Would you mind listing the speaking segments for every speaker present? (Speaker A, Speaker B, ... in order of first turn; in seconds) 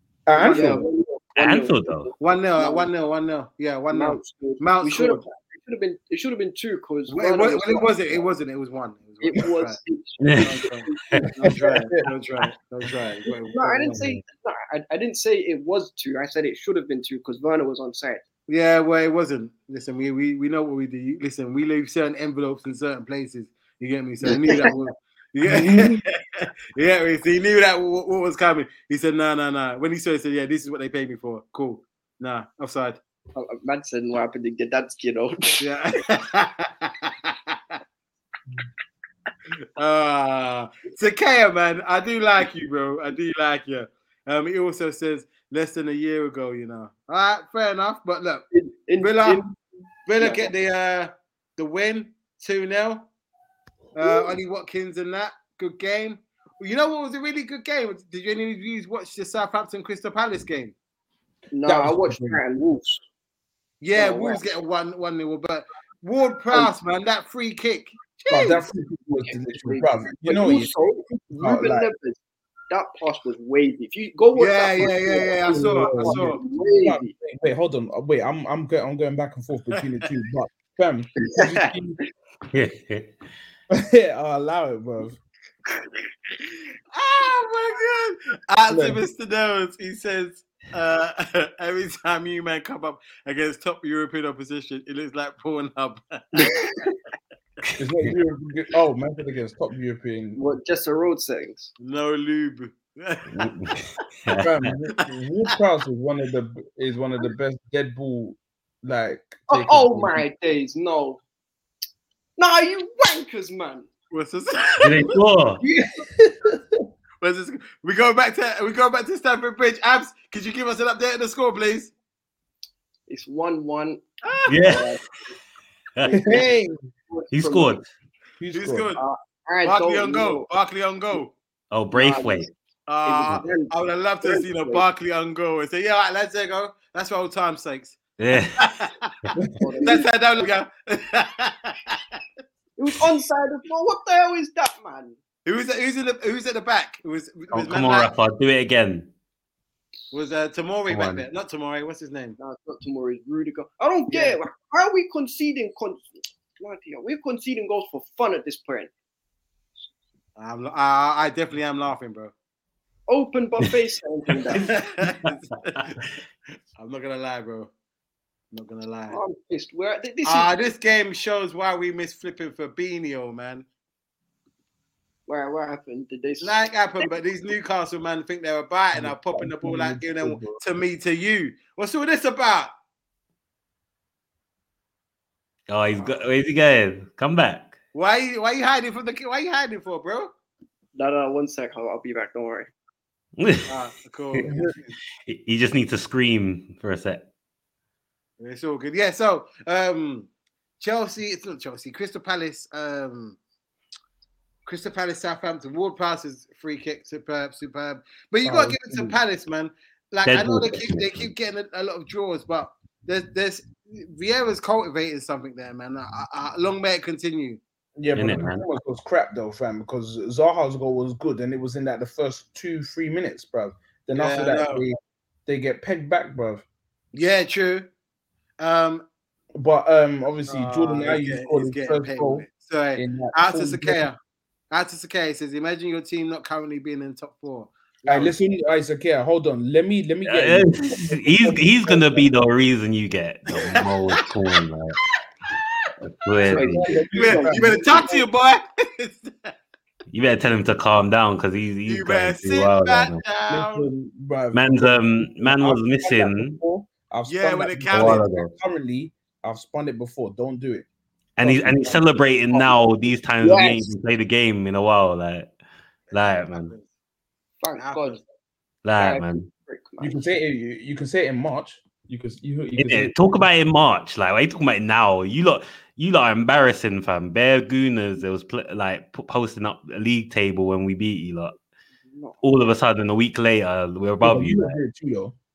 Speaker A: 0.2-0.9, 11.5-12.0, 25.4-26.0, 61.6-62.4, 68.3-71.9, 75.4-82.0, 83.7-85.2, 88.7-89.0, 97.8-100.4, 104.4-110.2, 116.0-116.8, 126.1-126.7, 128.4-128.9, 178.9-180.6, 194.4-194.7, 208.4-209.2, 218.0-226.6, 229.6-234.1, 238.1-242.3, 246.4-248.2, 253.5-260.9, 261.4-262.0, 270.0-273.4, 284.2-285.3
Speaker B: 0.3-0.8, 2.2-5.2, 7.1-9.8, 10.4-10.9, 11.4-14.0, 18.5-33.0, 35.6-37.5, 39.8-48.4, 49.0-49.4, 50.0-53.1, 54.0-60.7, 63.8-68.5, 74.3-76.4, 86.9-96.5, 101.8-103.5, 114.1-115.0, 117.2-121.9, 124.2-124.8, 128.5-129.0, 129.6-131.3, 132.9-138.0, 138.6-139.3, 139.8-142.2, 145.4-148.1, 150.1-152.4, 154.1-154.4, 160.4-162.3, 164.5-166.0, 166.8-167.7, 168.5-169.2, 170.2-173.7, 176.4-182.7, 187.9-190.3, 193.7-194.7, 198.4-200.3, 200.8-203.4, 204.7-217.6, 224.1-224.8, 227.1-227.9, 228.6-229.1, 230.5-234.2, 234.7-238.3, 247.1-249.5, 251.8-253.9, 257.2-258.3, 266.1-266.9, 267.8-268.2
Speaker C: 0.4-2.9, 3.9-8.2, 9.2-11.7, 13.5-18.2, 24.2-24.7, 33.3-35.6, 48.5-49.6, 50.2-50.5, 54.0-54.3, 61.5-63.0, 63.9-64.4, 68.3-68.6, 69.2-77.1, 81.3-81.6, 96.4-96.9, 100.3-101.7, 109.5-111.2, 112.4-113.9, 115.6-116.0, 123.1-124.0, 124.6-125.1, 126.0-126.5, 127.1-127.8, 128.9-130.4, 131.9-132.5, 133.1-133.7, 134.2-134.8, 139.6-140.1, 142.8-145.2, 152.4-158.9, 163.1-164.8, 169.1-170.5, 175.2-177.1, 190.9-192.7, 246.4-248.2, 262.5-262.8, 263.4-263.9, 267.6-268.2, 269.0-270.2, 282.1-282.4
Speaker D: 1.4-2.1, 10.2-10.6, 82.5-83.1, 103.3-104.7, 114.8-115.6, 124.5-124.9, 127.3-127.8, 131.7-132.5, 138.2-138.6, 147.5-149.1, 150.9-151.2, 185.7-187.7, 193.4-193.7, 195.2-197.2, 210.2-211.3, 218.1-218.6, 240.2-245.0, 246.1-246.8, 250.1-253.2, 254.5-256.6, 257.9-258.5, 261.4-265.5, 266.1-266.7, 268.8-269.5, 272.8-281.6, 282.4-284.8